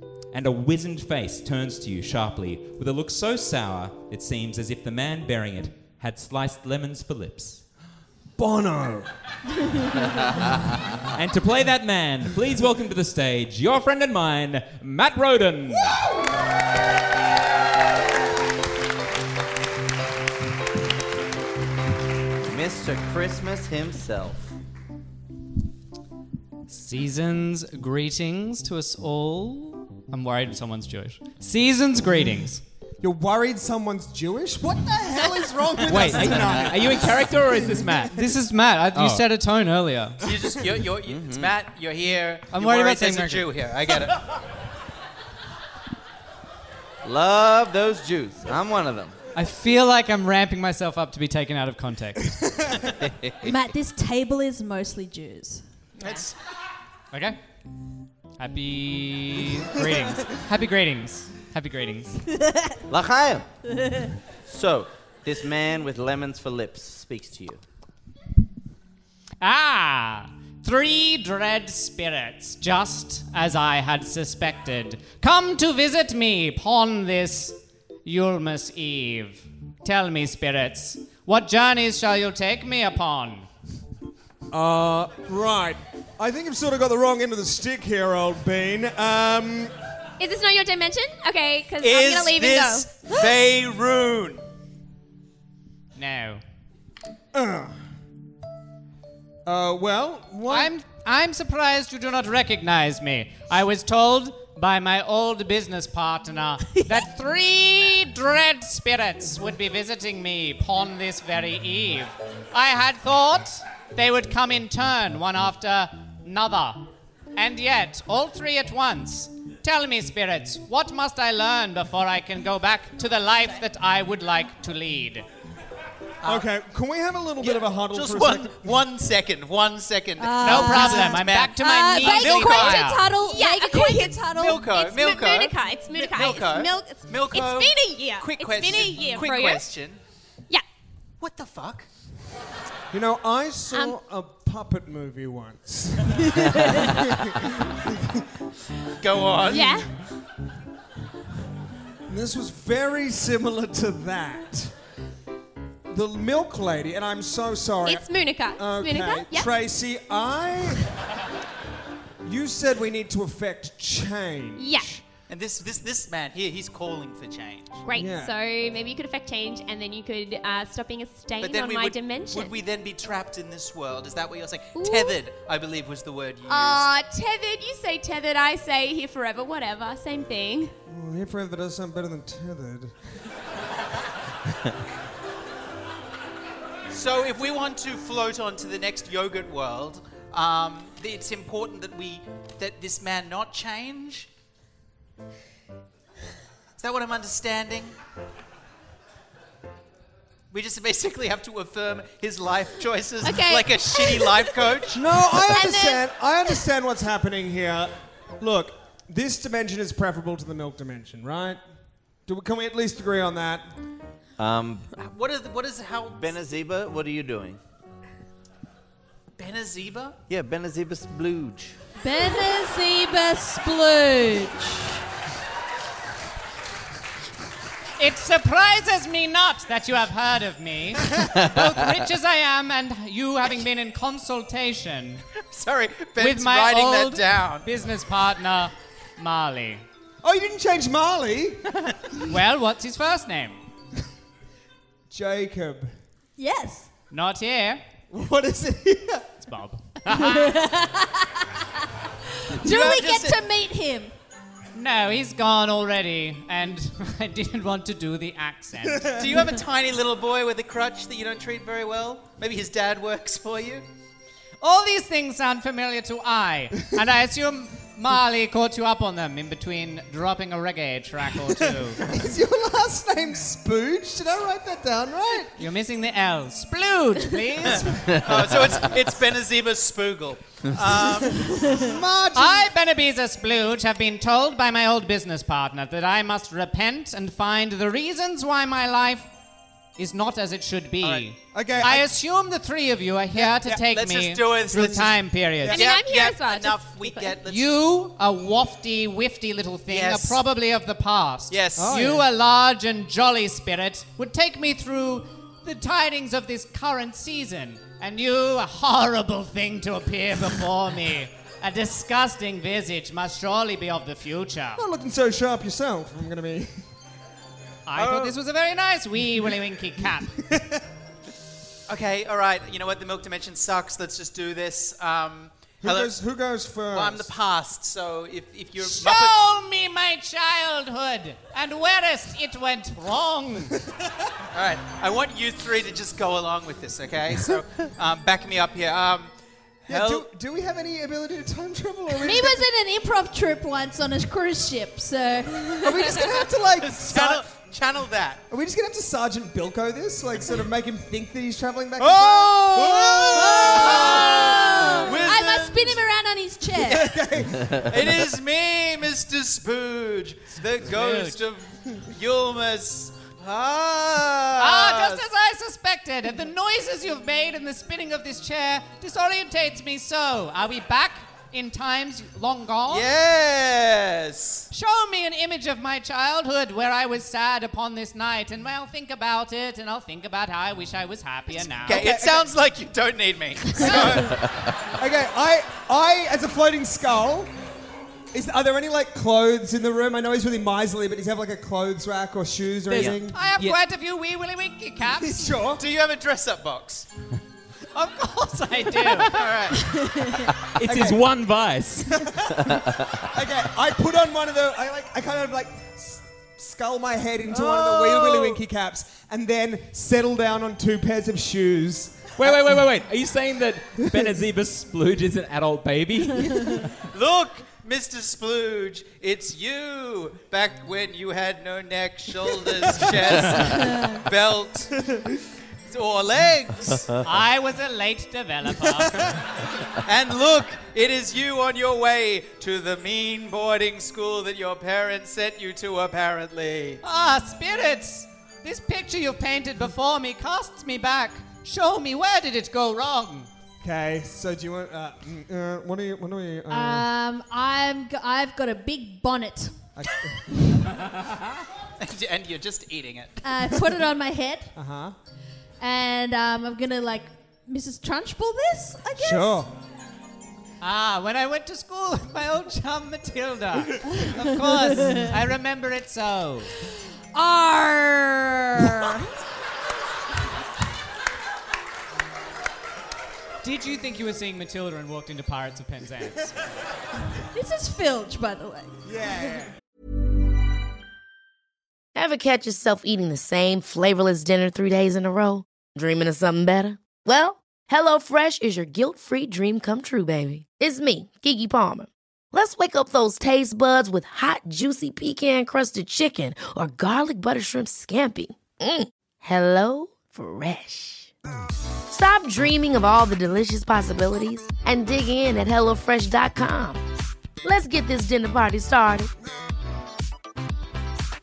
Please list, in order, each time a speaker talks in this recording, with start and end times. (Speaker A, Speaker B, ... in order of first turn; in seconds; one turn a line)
Speaker A: 0.3-7.6
Speaker B: 8.4-9.1
Speaker A: 11.1-16.0
Speaker C: 22.4-24.5
Speaker D: 26.7-32.6
Speaker B: 33.0-37.3
Speaker A: 35.9-38.3
Speaker D: 35.9-36.5
Speaker D: 38.1-40.3
Speaker A: 38.9-39.2
Speaker E: 40.2-44.2
Speaker C: 41.0-41.5
Speaker D: 42.5-43.5
Speaker C: 47.0-49.1
Speaker D: 49.3-52.5
Speaker C: 53.0-53.5
Speaker F: 53.4-55.6
Speaker E: 56.0-56.3
Speaker D: 57.1-57.4
Speaker D: 58.4-62.2
Speaker C: 62.9-63.5
Speaker C: 64.4-67.6
Speaker D: 69.4-83.5
Speaker B: 84.5-89.7
Speaker G: 90.2-92.9
Speaker E: 91.8-94.4
Speaker D: 95.9-96.4
Speaker B: 97.3-97.8
Speaker B: 99.5-100.7
Speaker D: 100.5-125.2
Speaker B: 126.2-128.7
Speaker E: 127.4-132.8
Speaker F: 130.2-134.6
Speaker D: 130.4-133.1
Speaker G: 132.4-139.7
Speaker E: 134.3-140.0
Speaker E: 141.2-141.9
Speaker B: 142.9-148.2
Speaker E: 149.0-149.8
Speaker G: 149.5-149.9
Speaker B: 152.1-154.7
Speaker B: 155.9-160.8
Speaker G: 157.8-159.5
Speaker B: 162.2-165.0
Speaker G: 164.6-164.9
Speaker E: 165.3-167.8
Speaker G: 167.8-172.5
Speaker B: 167.9-168.3
Speaker E: 171.4-176.9
Speaker G: 174.7-175.2
Speaker G: 176.5-180.7
Speaker B: 180.9-182.9
Speaker E: 186.9-194.3
Speaker E: 196.8-197.9
Speaker E: 200.5-205.0
Speaker G: 203.2-204.6
Speaker B: 204.9-211.6
Speaker G: 205.5-206.0
Speaker B: 212.3-213.6
Speaker C: 214.4-214.9
Speaker E: 215.0-216.3
Speaker C: 216.1-217.6
Speaker E: 219.4-220.2
Speaker C: 220.3-221.8
Speaker F: 222.0-224.9
Speaker D: 228.0-235.2
Speaker E: 235.4-237.7
Speaker D: 236.2-239.8
Speaker B: 240.2-242.2
Speaker D: 242.3-243.6
Speaker B: 245.1-245.9
Speaker F: 246.4-246.9
Speaker D: 247.1-247.8
Speaker B: 248.1-249.3
Speaker D: 249.4-250.6
Speaker F: 250.1-251.7
Speaker F: 252.4-254.1
Speaker E: 252.6-253.4
Speaker D: 254.7-259.2
Speaker E: 259.1-263.9
Speaker D: 264.6-272.0
Speaker B: 272.0-275.6
Speaker D: 275.6-277.9
Speaker E: 277.7-281.7
Speaker C: 278.1-278.7
Speaker B: 281.4-282.7
Speaker D: 282.3-289.3
Speaker D: 290.0-295.8
Speaker B: 291.0-292.1
Speaker E: 293.4-297.8
Speaker B: 294.7-295.1
Speaker G: 295.7-297.4
Speaker D: 297.4-314.8
Speaker E: 299.9-300.4
Speaker E: 301.5-302.0
Speaker B: 301.8-302.2
Speaker B: 314.8-316.7
Speaker D: 317.9-320.3
Speaker B: 320.4-320.8
Speaker E: 321.9-326.1
Speaker B: 325.8-327.3
Speaker E: 326.9-329.3
Speaker D: 328.8-333.7
Speaker E: 334.5-339.3
Speaker B: 339.9-342.6
Speaker E: 339.9-340.2
Speaker F: 342.2-346.1
Speaker B: 345.8-347.4
Speaker E: 346.8-348.4
Speaker B: 348.5-355.1
Speaker E: 352.0-356.0
Speaker F: 353.3-357.1
Speaker B: 356.9-357.9
Speaker E: 356.9-365.2
Speaker D: 360.9-361.4
Speaker D: 364.6-373.1
Speaker E: 372.9-374.7
Speaker D: 374.7-382.1
Speaker E: 381.9-384.4
Speaker B: 381.9-382.4
Speaker B: 383.8-384.3
Speaker B: 385.0-387.5
Speaker B: 388.3-393.4
Speaker A: 392.9-393.8
Speaker D: 393.0-395.7
Speaker B: 395.2-395.8
Speaker E: 395.8-397.1
Speaker D: 397.9-399.5
Speaker E: 399.0-399.8
Speaker F: 399.8-400.5
Speaker A: 400.6-402.3
Speaker B: 400.8-401.2
Speaker B: 402.1-402.6
Speaker B: 403.3-412.6
Speaker E: 408.1-408.6
Speaker A: 412.4-416.9
Speaker E: 417.1-425.1
Speaker F: 423.7-424.1
Speaker E: 425.9-427.2
Speaker D: 427.2-429.4
Speaker E: 429.9-437.0
Speaker D: 437.0-443.5
Speaker B: 443.8-447.1
Speaker F: 446.7-449.8
Speaker B: 449.9-450.8
Speaker E: 452.0-453.4
Speaker F: 453.4-454.7
Speaker B: 454.7-455.1
Speaker F: 455.8-459.6
Speaker B: 459.2-459.7
Speaker D: 460.8-466.7
Speaker F: 464.9-465.2
Speaker F: 467.3-469.3
Speaker D: 473.6-476.5
Speaker F: 477.5-478.9
Speaker B: 479.1-479.7
Speaker H: 482.1-501.3
Speaker H: 502.1-507.0
Speaker H: 507.6-509.3